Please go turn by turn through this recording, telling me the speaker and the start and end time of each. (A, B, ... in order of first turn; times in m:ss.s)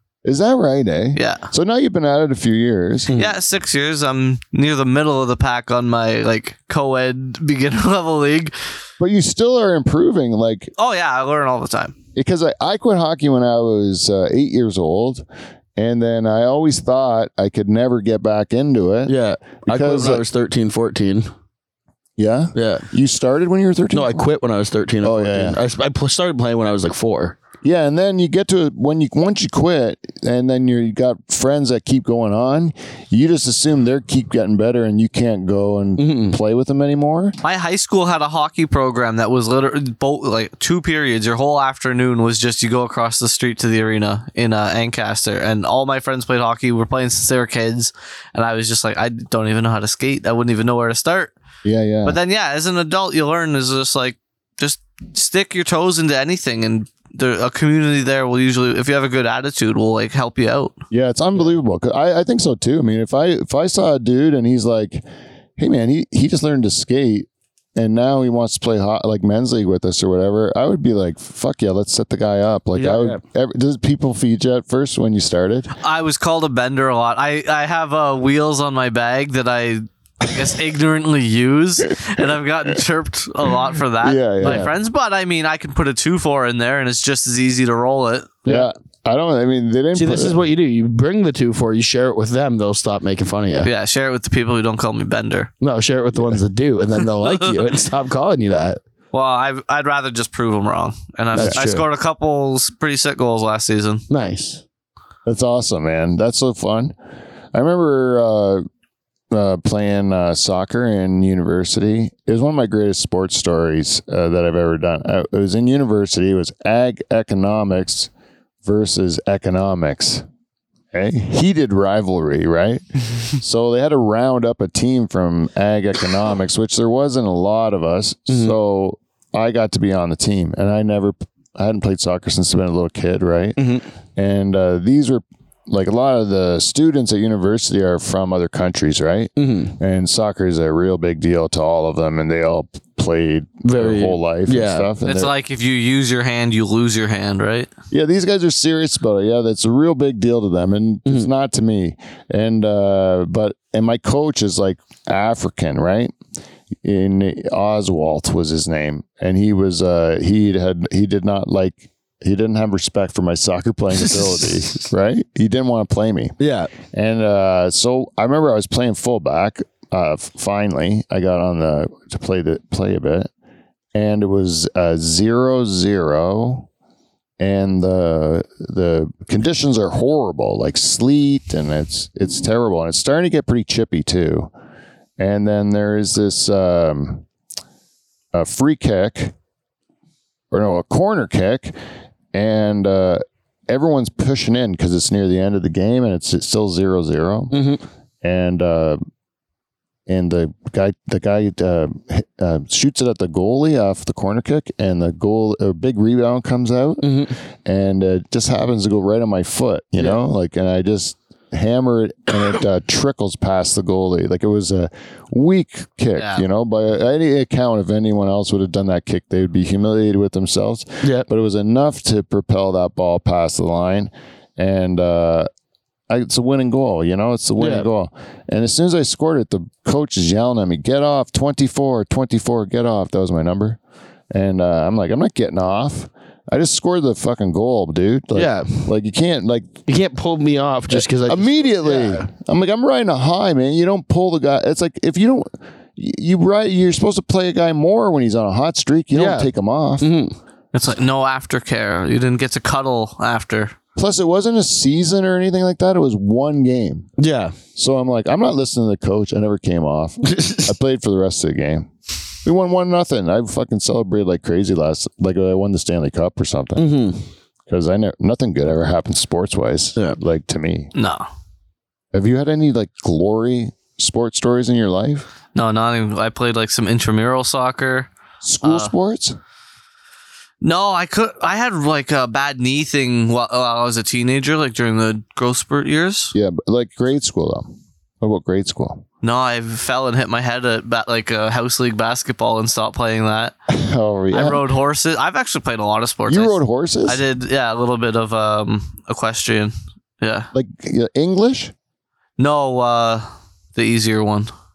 0:00.2-0:03.1 A
0:01.1-0:01.5 B
0:03.1-0:03.4 C
0:03.2-0:08.5 B
0:09.0-0:10.7 A
0:10.8-0:11.9 B
0:12.2-0:15.2 A
0:15.8-0:19.1 A
0:19.0-0:21.3 C
0:19.6-0:20.2 A
0:22.2-0:24.2 A
0:22.5-0:22.9 C
0:23.9-0:27.4 C
0:25.0-0:25.6 A
0:27.6-0:37.4 A
0:36.0-0:36.4 C
0:37.4-0:51.3 B
0:51.6-0:52.2 A
0:52.0-1:00.8 B
1:00.9-1:05.0 A
1:05.6-1:15.7 A
1:12.7-1:13.2 C
1:15.8-1:28.4 B
1:24.0-1:24.7 A
1:24.4-1:24.7 C
1:28.4-1:28.7 C
1:28.4-1:30.4 A
1:29.9-1:33.7 C
1:33.6-1:35.5 B
1:35.6-1:38.8 C
1:37.1-1:37.6 B
1:39.1-1:44.0 B
1:41.3-1:41.8 C
1:44.1-1:44.6 C
1:45.2-1:46.9 A
1:47.5-1:48.6 A
1:49.3-1:58.1 A
1:58.6-2:00.2 A
2:00.9-2:13.6 A
2:08.3-2:08.6 C
2:13.6-2:13.9 C
2:14.2-2:25.3 A
2:19.4-2:19.8 C
2:23.6-2:24.9 C
2:25.0-2:27.7 B
2:27.9-2:36.1 A
2:36.8-2:46.3 A
2:46.4-2:46.7 C
2:46.9-2:53.3 A
2:53.9-2:56.7 A
2:57.4-3:04.5 A
3:05.2-3:07.2 A
3:08.3-3:09.3 A
3:10.5-3:11.7 A
3:12.3-3:17.6 A
3:17.5-3:17.8 C
3:18.2-3:19.0 A
3:20.1-3:45.5 A
3:27.0-3:27.4 C
3:36.2-3:36.4 B
3:41.0-3:41.3 C
3:46.1-3:53.8 A
3:47.6-3:47.9 C
3:54.3-3:59.8 A
3:58.3-3:58.9 C
3:59.8-4:02.3 C
4:00.9-4:10.1 A
4:09.1-4:10.4 C
4:10.7-4:13.7 B
4:14.0-4:17.1 A
4:17.2-4:17.6 C
4:17.8-4:21.9 A
4:20.2-4:20.7 C
4:22.4-4:27.0 A
4:26.8-4:27.3 C
4:27.7-4:30.9 A
4:30.9-4:31.2 B
4:32.1-4:35.3 A
4:35.5-4:38.1 B
4:38.4-4:39.4 A
4:38.6-4:38.9 B
4:40.6-4:46.3 B
4:46.3-4:49.0 A
4:49.2-4:53.5 B
4:53.7-4:54.7 A
4:54.3-5:00.5 B
4:56.3-4:57.2 A
5:00.5-5:01.7 A
5:02.4-5:04.5 B